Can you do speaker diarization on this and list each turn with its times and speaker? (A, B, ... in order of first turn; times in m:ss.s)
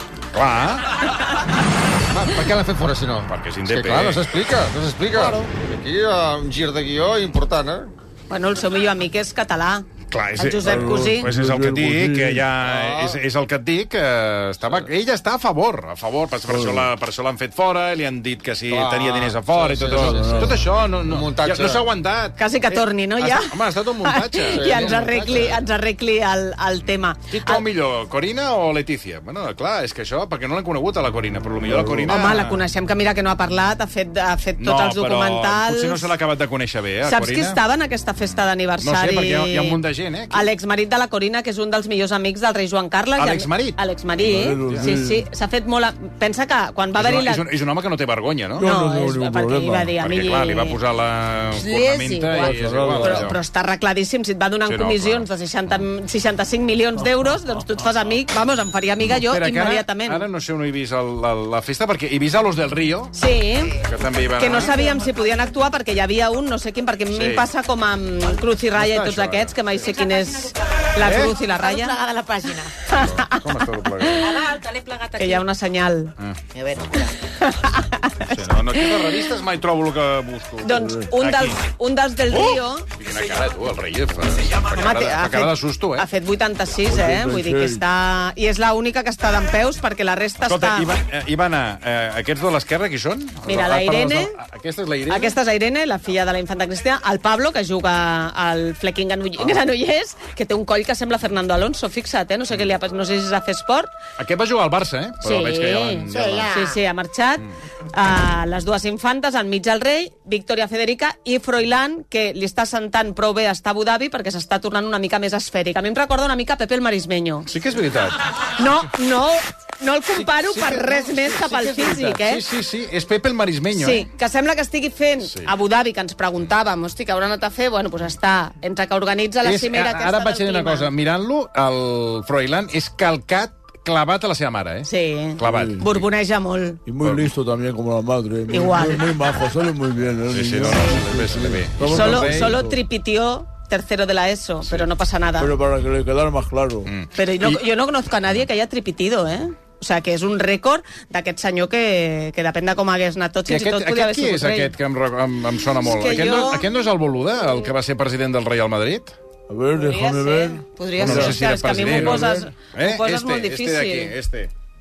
0:00.3-0:01.0 A
0:02.1-0:07.9 B
0:03.3-0:04.2 A
0:08.3-0:11.2 C
0:10.1-0:24.8 A
0:10.6-0:12.4 D
0:12.6-0:13.2 B
0:16.5-0:16.9 D
0:18.7-0:21.9 B
0:19.9-0:20.6 D
0:22.4-0:23.5 C
0:24.0-0:27.6 C
0:24.5-0:25.6 B
0:27.3-0:32.6 A
0:31.6-0:32.2 D
0:32.1-0:36.1 C
0:34.6-0:37.6 A
0:37.0-0:39.8 C
0:38.8-0:40.5 A
0:40.3-0:47.4 C
0:43.2-0:43.8 A
0:44.2-0:45.2 D
0:47.0-0:48.6 A
0:48.6-0:49.9 D
0:48.6-0:50.8 C
0:50.0-0:53.4 A
0:51.6-1:00.2 C
0:52.3-0:53.3 D
0:54.7-0:55.3 A
0:59.0-1:03.1 A
1:03.1-1:03.7 C
1:03.7-1:04.7 A
1:04.4-1:12.0 C
1:07.1-1:07.4 A
1:08.7-1:09.7 A
1:11.0-1:11.3 A
1:11.5-1:12.7 E
1:12.9-1:13.4 C
1:13.0-1:14.3 A
1:14.2-1:15.4 E
1:15.2-1:16.1 C
1:16.5-1:17.1 E
1:17.4-1:19.2 C
1:18.2-1:21.6 A
1:20.6-1:22.8 C
1:20.8-1:21.0 D
1:22.3-1:26.1 A
1:24.7-1:30.9 C
1:26.9-1:27.8 D
1:30.4-1:35.4 A
1:33.4-1:34.3 C
1:35.1-1:43.9 C
1:44.2-1:46.6 A
1:45.2-1:57.5 C
1:57.5-1:58.2 A
1:58.6-2:02.4 C
2:00.2-2:04.1 A
2:03.8-2:10.9 C
2:05.2-2:05.5 A
2:09.4-2:16.1 A
2:14.8-2:16.8 C
2:15.4-2:15.8 D
2:16.8-2:22.8 D
2:17.0-2:17.3 A
2:18.5-2:19.0 C
2:20.3-2:22.5 A
2:21.9-2:25.5 C
2:25.4-2:26.9 D
2:26.8-2:27.6 A
2:27.1-2:34.7 C
2:33.5-2:39.2 A
2:35.8-2:36.6 C
2:39.5-2:42.4 D
2:39.8-2:44.1 C
2:41.0-2:44.5 A